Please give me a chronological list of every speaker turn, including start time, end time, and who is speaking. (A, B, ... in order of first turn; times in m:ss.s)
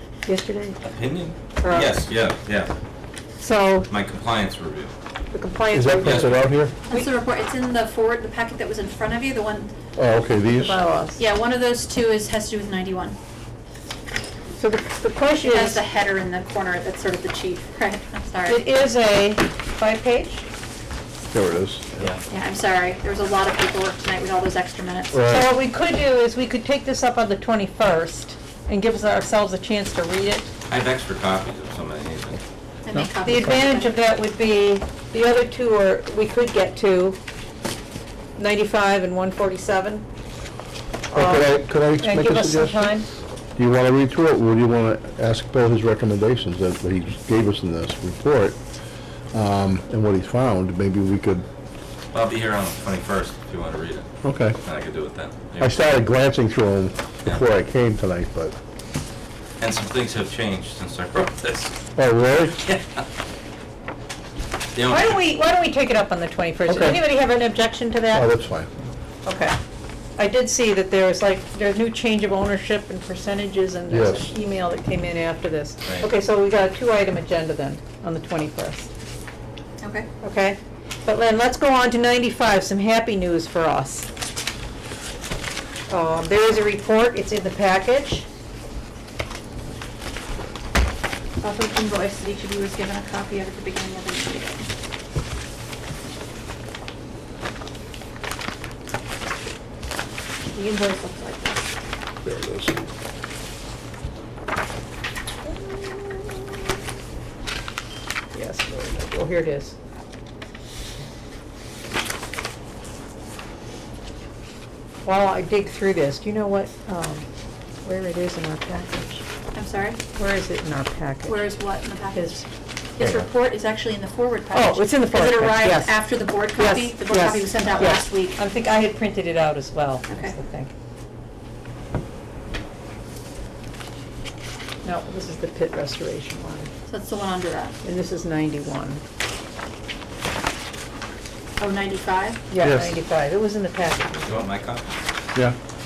0:00.2-0:00.8 A
0:00.8-0:02.7 B
0:01.6-0:02.0 A
0:03.4-0:03.9 A
0:03.9-0:04.9 B
0:05.3-0:06.4 A
0:05.7-0:06.7 C
0:06.0-0:06.5 B
0:06.8-0:09.7 D
0:10.0-0:10.8 C
0:10.5-0:11.2 A
0:11.2-0:13.2 D
0:14.6-0:15.8 A
0:15.4-0:18.6 D
0:18.4-0:20.4 A
0:21.3-0:22.2 C
0:22.3-0:25.2 D
0:25.1-0:25.5 C
0:25.2-0:30.5 A
0:30.7-0:32.4 B
0:32.8-0:33.9 D
0:33.2-0:37.2 A
0:38.4-0:40.0 A
0:41.1-0:42.9 C
0:41.1-0:43.1 A
0:43.6-0:48.6 C
0:49.3-0:51.4 C
0:52.1-0:54.1 B
0:54.2-0:54.6 C
0:54.6-0:55.9 B
0:55.6-0:58.5 C
0:59.6-1:01.7 B
1:02.0-1:02.6 C
1:02.6-1:03.0 B
1:04.7-1:05.2 B
1:04.9-1:08.3 A
1:06.7-1:07.0 C
1:08.1-1:08.7 C
1:09.2-1:09.6 A
1:10.2-1:18.9 A
1:13.9-1:14.3 C
1:19.8-1:20.1 D
1:20.2-1:24.1 A
1:25.9-1:28.3 A
1:31.4-1:34.7 D
1:40.5-1:41.6 A
1:42.2-1:42.9 C
1:45.6-1:46.0 A
1:48.3-1:49.7 A
1:55.0-1:57.2 A
1:57.8-1:59.2 A
1:59.5-2:00.0 D
2:00.1-2:01.6 A
2:01.2-2:02.4 D
2:02.1-2:02.4 A
2:03.0-2:08.4 D
2:03.0-2:03.3 C
2:04.5-2:10.7 A
2:10.1-2:10.3 D
2:14.8-2:16.7 A
2:16.8-2:17.8 D
2:17.8-2:19.0 A
2:21.6-2:22.4 D
2:22.5-2:24.4 A
2:22.6-2:22.9 C
2:24.2-2:24.8 B